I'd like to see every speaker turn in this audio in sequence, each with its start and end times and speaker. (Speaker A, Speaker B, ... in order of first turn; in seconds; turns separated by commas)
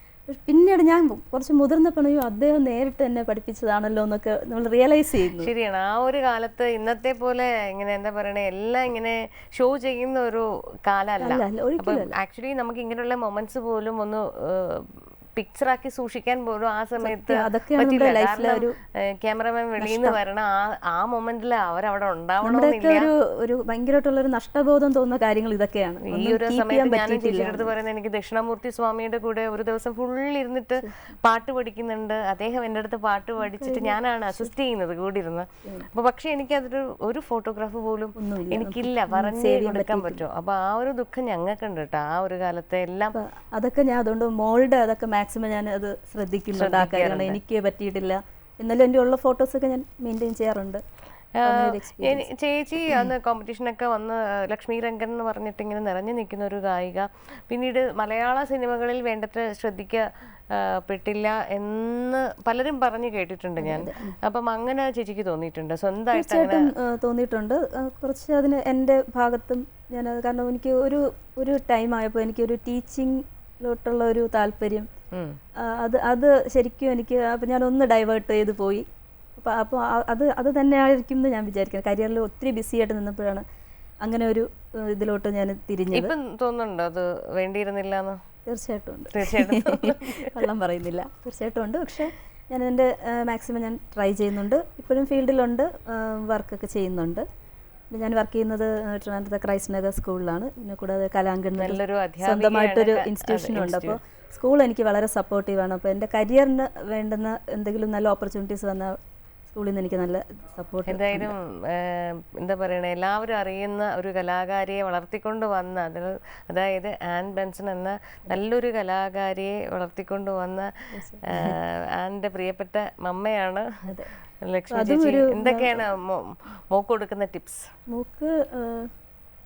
Speaker A: 0.3-5.5, Speaker B: 5.4-23.1, Speaker A: 11.2-12.1, Speaker A: 17.0-18.7, Speaker A: 19.8-20.2, Speaker A: 22.4-27.7, Speaker B: 26.0-43.1, Speaker A: 33.4-34.5, Speaker A: 38.1-40.2, Speaker A: 43.1-50.8, Speaker B: 46.5-47.4, Speaker B: 51.4-66.7, Speaker A: 51.4-52.3, Speaker A: 63.6-64.2, Speaker A: 66.1-74.9, Speaker A: 75.6-78.8, Speaker A: 79.4-83.4, Speaker A: 84.0-86.1, Speaker B: 85.9-88.2, Speaker A: 88.5-97.2, Speaker B: 89.1-90.3, Speaker A: 97.9-108.9, Speaker B: 101.6-104.0, Speaker A: 109.5-111.3, Speaker B: 110.9-120.7, Speaker A: 120.9-121.6, Speaker B: 121.3-123.6, Speaker B: 124.4-127.7, Speaker A: 124.7-125.8, Speaker A: 127.9-128.9